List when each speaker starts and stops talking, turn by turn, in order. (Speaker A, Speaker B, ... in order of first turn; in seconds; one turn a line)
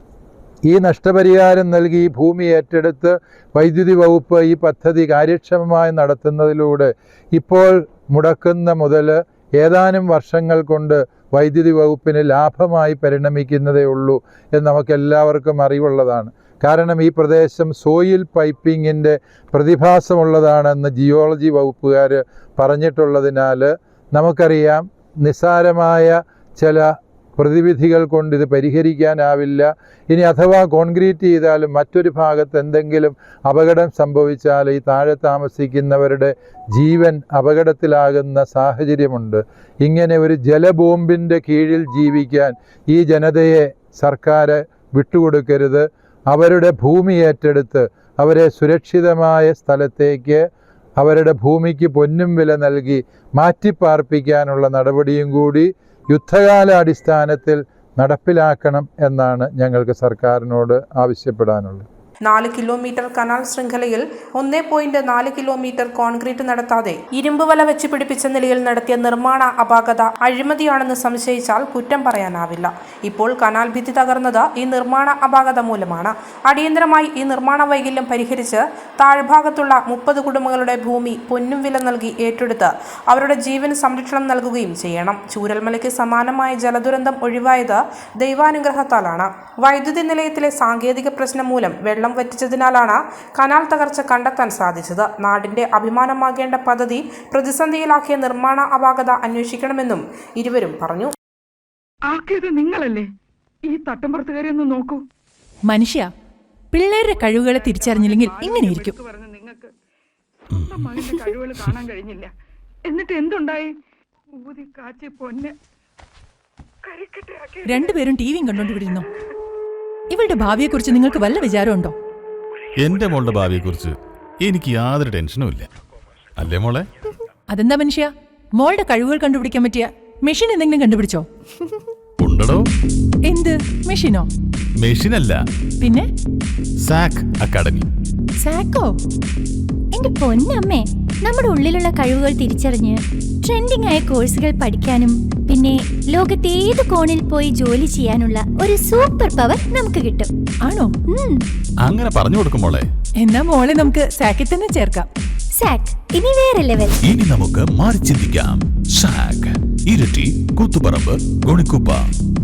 Speaker A: 0.7-50.5
Speaker A: 51.0-61.9
Speaker B: 62.3-101.1
Speaker C: 102.1-103.1
Speaker C: 103.6-105.1
Speaker D: 105.7-106.1
Speaker D: 106.7-109.0
Speaker C: 107.1-109.7
Speaker C: 110.5-112.3
Speaker E: 110.5-111.0
Speaker C: 112.8-113.8
Speaker C: 114.3-115.6
Speaker C: 116.8-118.1
Speaker D: 117.6-119.1
Speaker D: 120.1-122.0
Speaker E: 122.8-125.7
Speaker E: 126.4-126.9
Speaker D: 127.5-131.3
Speaker E: 132.2-132.7
Speaker D: 133.3-134.3
Speaker E: 134.8-135.4
Speaker D: 135.8-136.1
Speaker E: 136.8-137.9
Speaker D: 138.4-138.9
Speaker F: 139.9-150.3
Speaker D: 150.7-151.0
Speaker F: 151.1-151.4
Speaker E: 151.8-152.9
Speaker D: 153.2-155.1
Speaker F: 155.6-156.9
Speaker E: 157.0-162.0